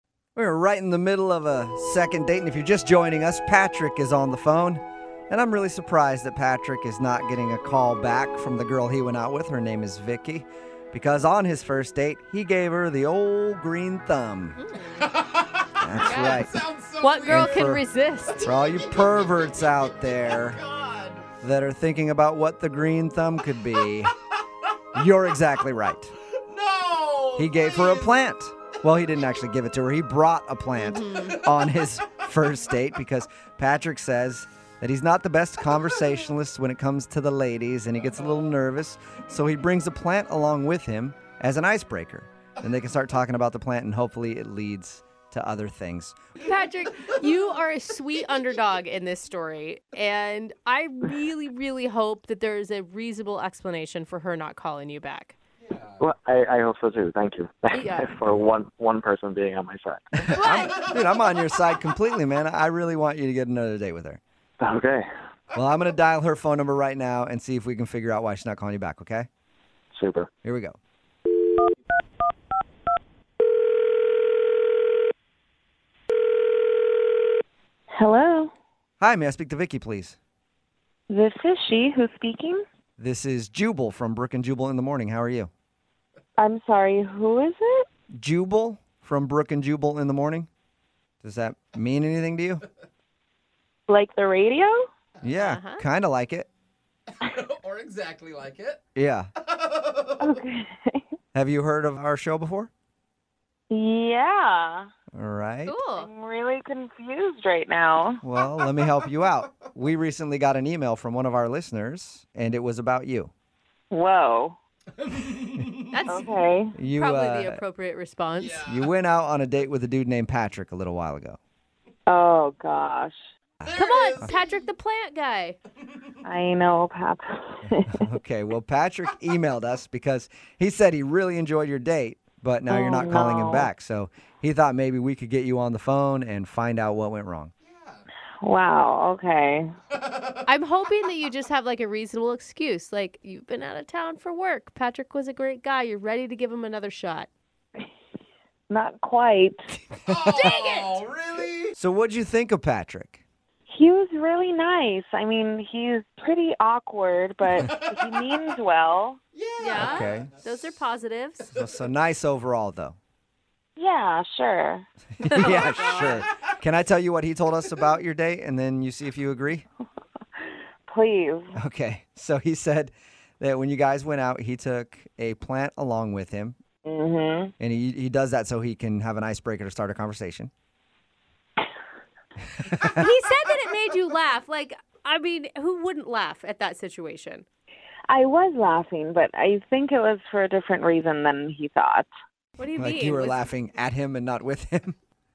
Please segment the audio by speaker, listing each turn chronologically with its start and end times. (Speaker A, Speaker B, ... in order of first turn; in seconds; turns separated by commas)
Speaker A: 0.3-14.6, Speaker B: 14.6-15.1, Speaker C: 15.0-17.7, Speaker A: 15.8-16.5, Speaker B: 17.0-18.5, Speaker A: 17.3-17.8, Speaker C: 18.4-21.3, Speaker A: 18.4-20.6, Speaker A: 21.4-24.1, Speaker A: 24.9-26.1, Speaker C: 26.4-28.2, Speaker A: 27.4-46.2, Speaker B: 30.8-31.4, Speaker B: 46.4-55.4, Speaker C: 46.5-47.6, Speaker C: 55.6-56.1, Speaker D: 56.0-60.4, Speaker A: 60.2-64.2, Speaker B: 60.4-60.7, Speaker C: 60.6-61.1, Speaker D: 64.6-65.1, Speaker A: 65.5-69.3, Speaker D: 69.9-70.3, Speaker A: 70.4-70.8, Speaker E: 77.9-78.5, Speaker A: 79.0-80.2, Speaker E: 81.1-82.6, Speaker A: 83.0-85.5, Speaker E: 86.4-87.8, Speaker A: 88.1-90.5, Speaker A: 91.2-92.6, Speaker E: 93.9-94.9, Speaker A: 95.2-96.5, Speaker B: 95.5-95.8, Speaker C: 97.2-98.8, Speaker A: 98.9-99.3, Speaker C: 99.4-100.3, Speaker E: 100.2-101.0, Speaker A: 101.3-102.7, Speaker E: 103.7-104.9, Speaker A: 105.1-105.8, Speaker B: 105.7-106.1, Speaker E: 106.0-108.2, Speaker A: 108.2-113.3, Speaker E: 113.9-114.6, Speaker C: 115.0-116.0, Speaker B: 115.9-116.3, Speaker E: 116.1-116.8, Speaker A: 116.7-117.6, Speaker B: 116.9-118.5, Speaker C: 118.3-118.9, Speaker A: 118.6-121.4, Speaker E: 122.1-123.2, Speaker A: 123.6-124.3, Speaker C: 123.6-124.7, Speaker B: 123.8-125.6, Speaker E: 126.2-128.0, Speaker A: 127.9-137.5, Speaker E: 132.7-133.7, Speaker C: 137.6-138.0, Speaker E: 138.4-139.7, Speaker C: 139.9-140.5, Speaker B: 140.5-147.3, Speaker E: 148.7-149.6, Speaker C: 150.1-151.7, Speaker A: 150.1-150.6, Speaker B: 150.5-150.9, Speaker A: 151.8-153.2, Speaker E: 153.7-159.2, Speaker C: 157.6-158.2, Speaker C: 159.3-160.7, Speaker B: 159.6-161.4, Speaker A: 159.7-160.5, Speaker A: 161.5-162.9, Speaker E: 163.8-164.9, Speaker A: 165.2-169.7, Speaker B: 165.3-166.2, Speaker C: 166.0-166.5, Speaker E: 170.8-171.6, Speaker A: 171.5-176.6, Speaker E: 176.8-177.5, Speaker A: 177.6-180.5, Speaker A: 182.7-182.9, Speaker B: 183.0-187.4, Speaker E: 188.1-192.1, Speaker B: 192.6-193.3, Speaker A: 192.8-194.9